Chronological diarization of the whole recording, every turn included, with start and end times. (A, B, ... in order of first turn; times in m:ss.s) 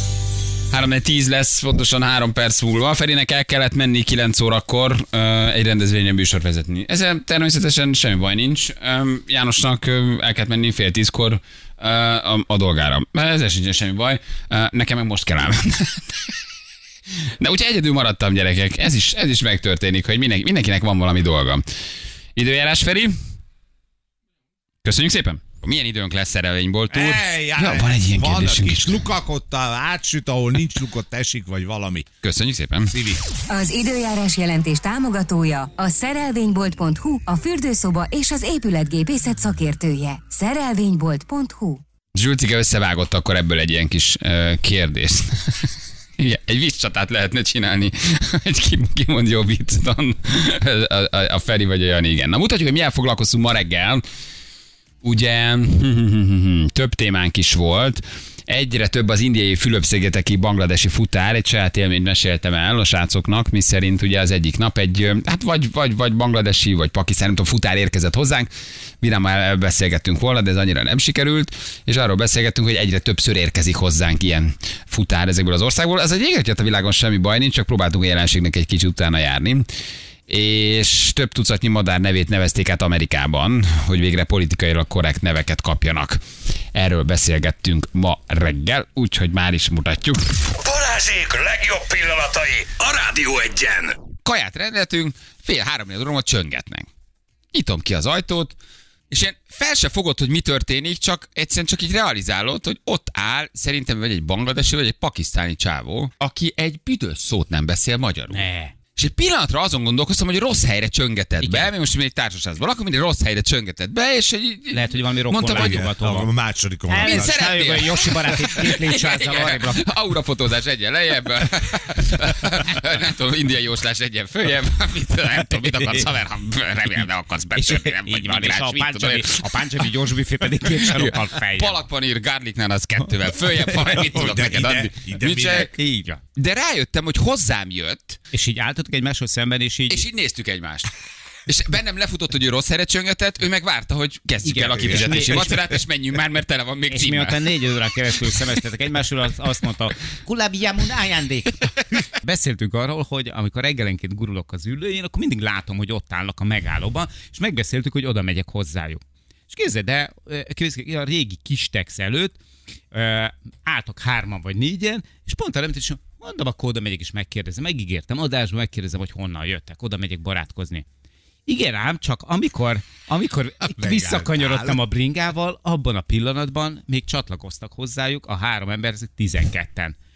0:00.7-0:16.4 A
0:17.4-0:21.6 A
0:22.4-0:23.2 A
0:24.8-0:29.1 A
0:26.9-0:32.1 B
0:32.2-0:32.9 A
0:32.9-0:33.2 B
0:33.5-0:41.8 C
0:42.1-0:54.0 A
0:55.0-1:19.7 A
1:20.3-1:26.2 A
1:26.7-1:30.5 A
1:30.6-1:34.0 D
1:34.2-1:36.9 A
1:37.5-1:38.6 A
1:39.1-1:48.4 A
1:48.3-1:48.8 E
1:49.0-1:55.9 A
1:51.4-1:51.7 E
1:54.7-1:56.3 E
1:55.4-1:57.4 B
1:56.9-1:59.9 E
1:57.0-2:09.9 A
2:05.6-2:06.0 E
2:07.5-2:11.8 E
2:10.6-2:15.7 A
2:13.9-2:15.7 B
2:15.5-2:16.2 E
2:16.4-2:18.2 A
2:18.3-2:20.0 E
2:19.9-2:20.9 A
2:21.5-2:27.5 A
2:24.4-2:25.8 E
2:26.9-2:42.4 E
2:42.9-2:50.8 E
2:51.5-3:00.0 E
2:53.6-2:54.8 B